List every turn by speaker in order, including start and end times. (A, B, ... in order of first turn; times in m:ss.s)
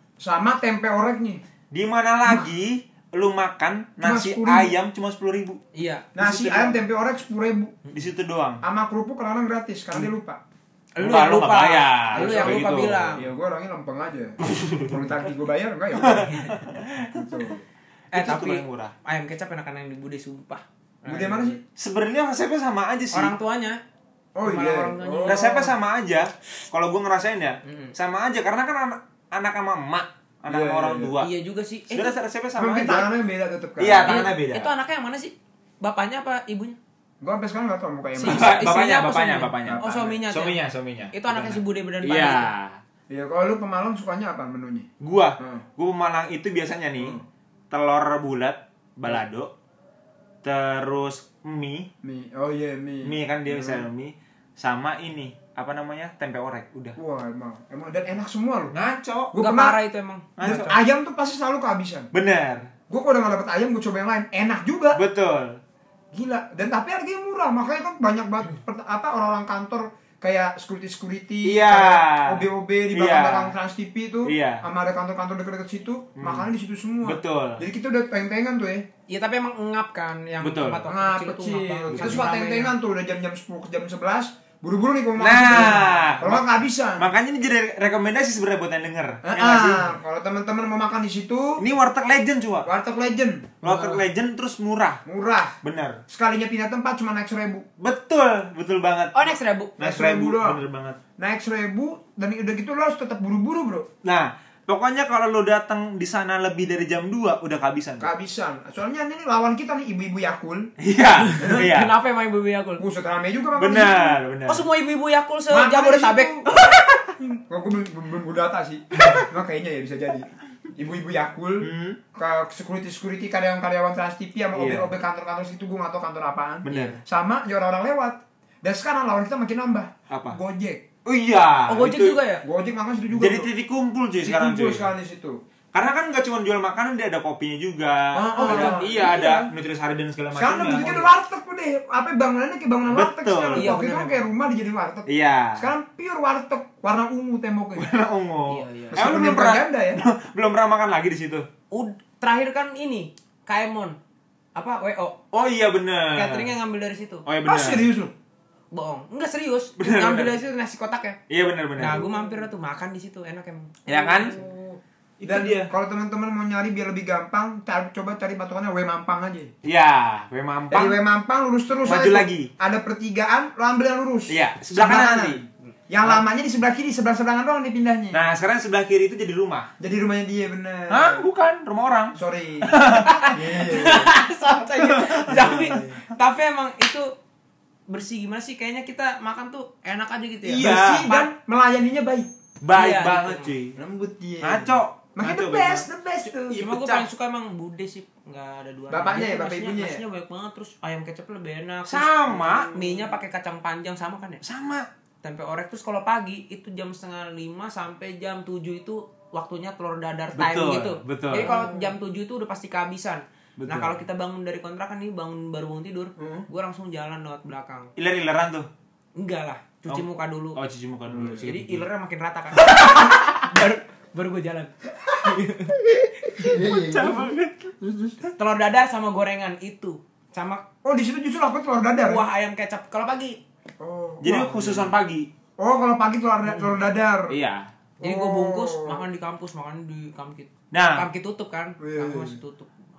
0:00.2-0:01.4 A
0:01.7-0:05.6 B
0:04.0-0:04.7 A
0:05.7-0:06.7 C
0:06.2-0:07.8 A
0:06.4-0:06.7 B
0:07.9-0:08.6 B
0:08.6-0:10.4 A
0:11.0-0:13.3 C
0:11.0-0:13.1 B
0:12.1-0:16.4 A
0:14.4-0:15.0 B
0:16.0-0:17.4 B
0:16.2-0:16.6 C
0:17.0-0:17.6 A
0:18.1-0:20.6 C
0:18.1-0:18.9 B
0:21.0-0:23.3 B
0:21.0-0:21.6 A
0:23.1-0:23.8 C
0:24.4-0:25.7 A
0:24.4-0:25.7 C
0:25.3-0:31.3 B
0:27.6-0:27.9 C
0:30.5-0:31.1 A
0:31.2-0:32.1 C
0:31.9-0:33.1 B
0:32.6-0:34.3 A
0:33.8-0:34.7 B
0:34.0-0:36.8 C
0:37.2-0:38.7 A
0:38.2-0:40.6 C
0:38.2-0:42.8 B
0:39.6-0:40.2 A
0:41.1-0:42.5 C
0:43.1-0:45.6 A
0:45.0-0:47.2 B
0:47.7-0:49.5 B
0:50.4-0:51.9 B
0:52.0-0:53.9 A
0:53.0-0:57.0 B
0:57.0-0:58.7 A
0:58.7-0:59.3 B
0:59.3-0:59.8 A
0:59.4-1:00.3 C
1:00.4-1:00.8 B
1:00.4-1:02.1 A
1:02.1-1:02.7 B
1:02.9-1:05.0 A
1:05.0-1:05.6 B
1:06.1-1:18.9 A
1:11.4-1:13.5 B
1:14.2-1:14.6 B
1:16.2-1:16.5 B
1:17.0-1:17.6 B
1:19.1-1:22.7 C
1:20.4-1:20.9 B
1:20.9-1:27.0 A
1:21.9-1:22.3 B
1:25.2-1:26.5 B
1:25.5-1:26.2 C
1:27.0-1:29.9 B
1:29.2-1:31.6 A
1:31.6-1:32.7 B
1:32.6-1:34.0 A
1:33.6-1:35.0 B
1:35.0-1:35.6 A
1:35.6-1:36.0 B
1:36.1-1:37.6 A
1:37.8-1:41.0 B
1:39.1-1:39.8 C
1:39.8-1:40.6 A
1:41.2-1:43.9 A
1:44.0-1:48.1 B
1:48.0-1:50.7 A
1:50.8-1:52.0 B
1:51.2-1:52.8 C
1:52.8-1:54.2 A
1:53.6-1:54.6 B
1:54.5-1:57.0 C
1:55.5-1:56.5 A
1:57.4-2:10.9 A
2:01.6-2:02.0 B
2:04.5-2:04.9 B
2:06.7-2:07.0 B
2:06.7-2:07.0 C
2:10.1-2:10.4 B
2:11.0-2:12.2 B
2:11.7-2:12.4 C
2:12.4-2:13.5 A
2:13.1-2:14.9 B
2:14.2-2:15.4 A
2:15.7-2:21.1 B
2:18.1-2:19.5 A
2:18.4-2:18.9 C
2:20.4-2:27.9 A
2:22.9-2:23.8 B
2:23.6-2:24.2 C
2:25.1-2:25.7 B
2:27.8-2:31.5 B
2:28.5-2:29.0 C
2:28.9-2:30.0 A
2:31.7-2:34.0 C
2:34.6-2:35.2 C
2:35.3-2:36.5 B
2:36.1-2:37.2 C
2:37.3-2:37.9 B
2:37.4-2:38.1 A
2:38.7-2:41.2 C
2:39.8-2:40.3 B
2:41.3-2:42.1 B
2:41.8-2:44.4 C
2:43.9-2:44.4 B
2:44.3-2:49.5 A
2:45.2-2:45.7 B
2:49.6-2:51.0 B
2:50.7-2:58.2 A
2:51.9-2:52.5 B
2:54.3-2:55.4 B
2:58.1-2:59.7 B
2:59.8-3:01.3 A
3:00.9-3:03.3 B
3:02.2-3:02.8 A
3:02.9-3:07.1 C
3:03.3-3:04.1 A
3:04.8-3:05.8 B
3:05.3-3:06.0 A
3:07.9-3:11.3 C
3:10.5-3:11.1 B
3:10.5-3:12.3 A
3:12.6-3:13.8 B
3:12.7-3:13.5 C
3:13.8-3:16.6 A
3:14.4-3:15.8 B
3:16.5-3:17.1 B
3:16.5-3:22.1 C
3:18.9-3:20.0 A
3:21.9-3:22.7 B
3:22.3-3:23.2 A
3:22.7-3:24.4 C
3:24.4-3:24.9 B
3:25.2-3:37.9 C
3:30.4-3:31.6 B
3:31.4-3:31.9 A
3:33.6-3:34.0 B
3:36.2-3:36.4 A
3:38.0-3:38.7 B
3:39.2-3:40.6 C
3:39.9-3:41.8 B
3:41.1-3:41.5 A
3:41.4-3:45.8 C
3:42.6-3:43.0 B
3:45.9-3:47.8 B
3:46.4-3:48.2 A
3:48.4-3:50.6 C
3:50.8-3:52.2 A
3:52.0-3:53.4 C
3:53.8-3:54.9 A
3:54.2-3:55.3 B
3:55.6-3:57.4 A
3:57.3-3:57.7 B
3:58.0-3:59.0 A
3:58.0-4:02.7 C
4:00.7-4:01.0 B
4:01.8-4:02.4 A